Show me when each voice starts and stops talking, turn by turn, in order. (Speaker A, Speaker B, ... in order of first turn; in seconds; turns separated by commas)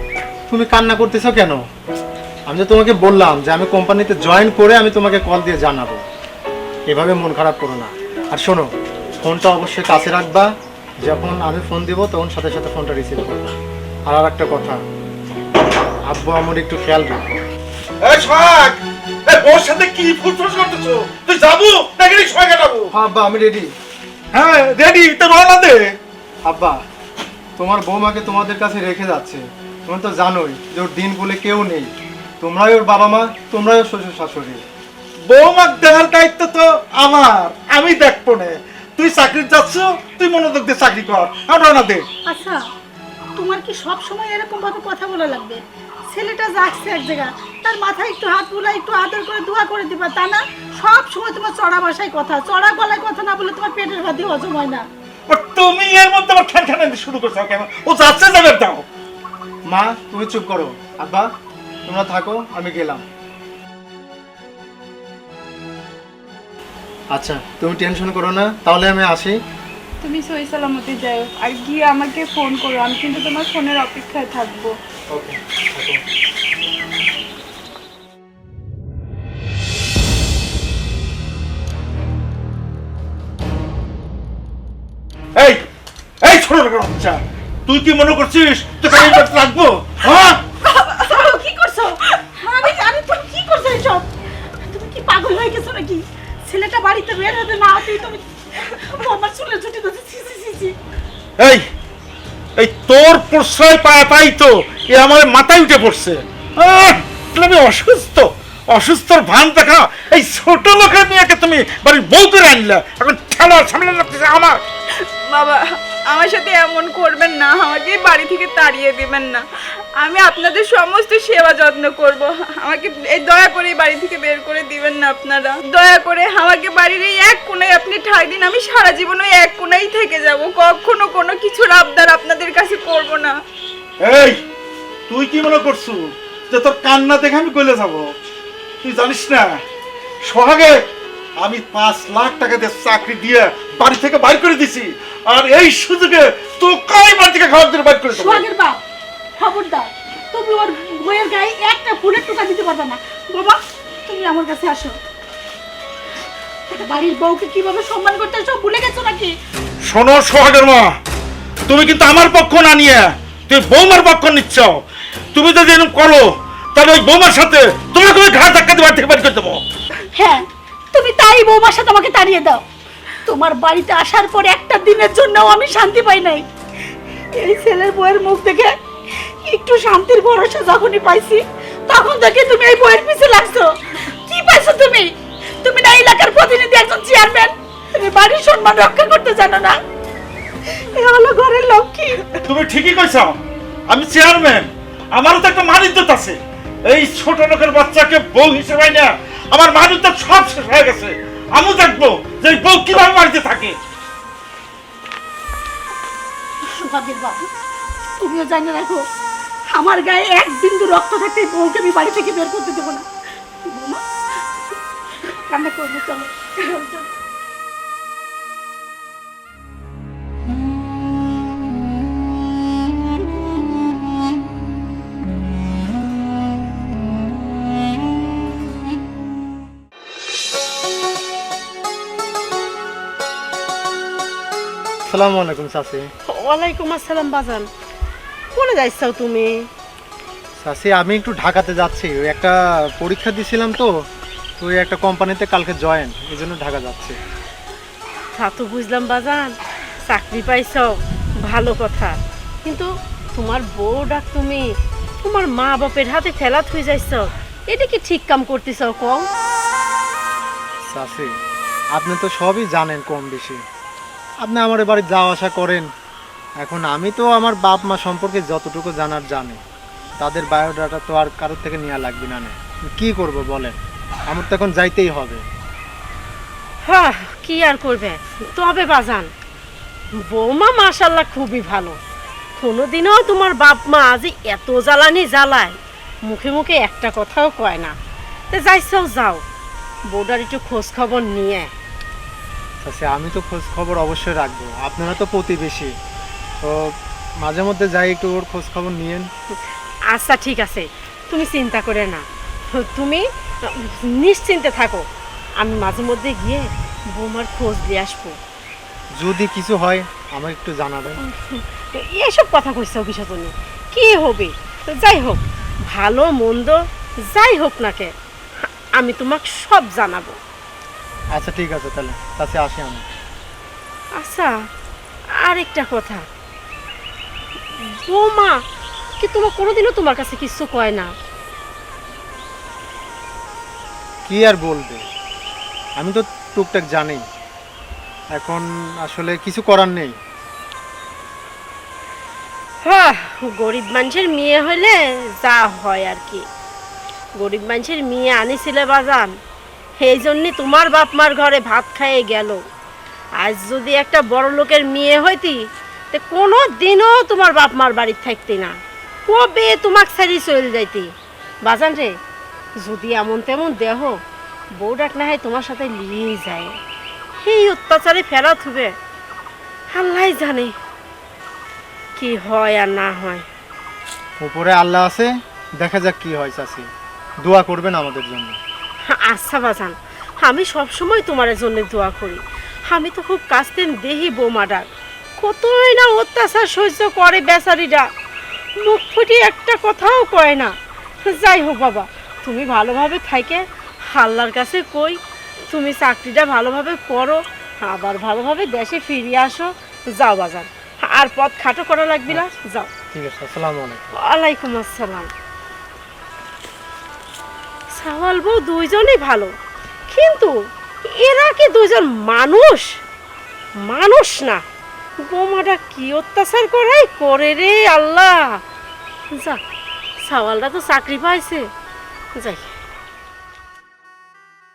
Speaker A: 0.5-1.6, Speaker A: 2.5-6.0, Speaker A: 6.9-10.5, Speaker A: 11.0-13.5, Speaker A: 14.1-14.8, Speaker A: 16.1-17.4, Speaker B: 18.0-22.9, Speaker A: 22.9-23.7, Speaker B: 24.3-25.9, Speaker A: 26.4-26.8, Speaker A: 27.6-34.6, Speaker B: 35.3-42.0, Speaker C: 42.3-42.6, Speaker C: 43.4-54.9, Speaker B: 55.3-58.8, Speaker A: 59.7-61.3, Speaker A: 61.9-63.0, Speaker A: 67.1-69.4, Speaker D: 70.0-74.7, Speaker A: 75.1-76.0, Speaker B: 85.4-85.6, Speaker B: 86.2-90.4, Speaker C: 90.6-94.0, Speaker C: 94.6-100.8, Speaker B: 101.4-101.7, Speaker B: 102.6-114.6, Speaker D: 115.2-119.4, Speaker D: 120.0-133.3, Speaker B: 134.0-134.4, Speaker B: 135.1-138.1, Speaker B: 138.8-139.6, Speaker B: 140.2-140.8, Speaker B: 141.4-148.4, Speaker C: 148.1-148.8, Speaker C: 149.4-154.9, Speaker C: 156.7-159.3, Speaker B: 159.9-160.9, Speaker B: 161.7-164.8, Speaker B: 165.3-169.6, Speaker C: 170.2-172.6, Speaker C: 173.3-176.4, Speaker C: 177.4-178.7, Speaker C: 179.4-189.8, Speaker C: 190.7-192.4, Speaker B: 192.4-193.3, Speaker B: 193.9-203.8, Speaker C: 206.6-207.5, Speaker C: 208.2-209.0, Speaker C: 209.7-213.0, Speaker C: 213.7-214.0, Speaker C: 215.5-217.1, Speaker A: 235.1-236.1, Speaker E: 236.3-237.7, Speaker E: 238.5-239.6, Speaker A: 240.6-243.9, Speaker A: 244.6-247.2, Speaker E: 248.4-249.6, Speaker E: 250.1-250.9, Speaker E: 251.4-252.1, Speaker E: 252.6-254.7, Speaker E: 255.2-259.2, Speaker A: 260.9-261.3, Speaker A: 261.9-263.6, Speaker A: 264.4-265.9, Speaker A: 266.6-269.6, Speaker A: 270.2-275.4, Speaker E: 276.9-279.3, Speaker E: 280.3-282.0, Speaker E: 282.6-285.8, Speaker E: 286.3-287.9, Speaker E: 288.5-289.4, Speaker E: 290.1-291.7, Speaker A: 292.8-295.9, Speaker A: 296.6-296.9, Speaker A: 297.4-299.3, Speaker E: 300.1-305.1, Speaker E: 305.6-308.4, Speaker A: 309.2-311.2, Speaker E: 311.2-318.1, Speaker E: 319.0-320.4, Speaker A: 321.3-323.1, Speaker E: 324.2-324.5, Speaker E: 325.4-326.2, Speaker E: 328.1-328.6, Speaker E: 329.2-331.1, Speaker A: 334.3-335.1, Speaker A: 336.0-337.2, Speaker A: 338.3-340.1, Speaker E: 342.8-346.4, Speaker E: 347.4-349.3, Speaker E: 350.0-352.6, Speaker E: 353.4-358.8, Speaker E: 359.3-361.1, Speaker E: 361.6-362.1, Speaker E: 362.8-364.2, Speaker E: 364.8-366.8, Speaker E: 367.4-368.9, Speaker E: 369.9-370.8, Speaker E: 372.2-373.4, Speaker A: 374.4-376.9, Speaker A: 377.4-378.6, Speaker E: 379.1-384.9, Speaker E: 385.4-388.1, Speaker E: 388.8-390.7, Speaker E: 391.2-402.9, Speaker A: 403.1-404.1, Speaker E: 404.1-405.3, Speaker E: 407.9-409.5, Speaker E: 410.1-410.6, Speaker E: 411.1-413.0, Speaker E: 413.8-414.6, Speaker E: 415.2-418.6, Speaker E: 419.3-419.6, Speaker E: 420.2-421.7, Speaker E: 422.4-422.6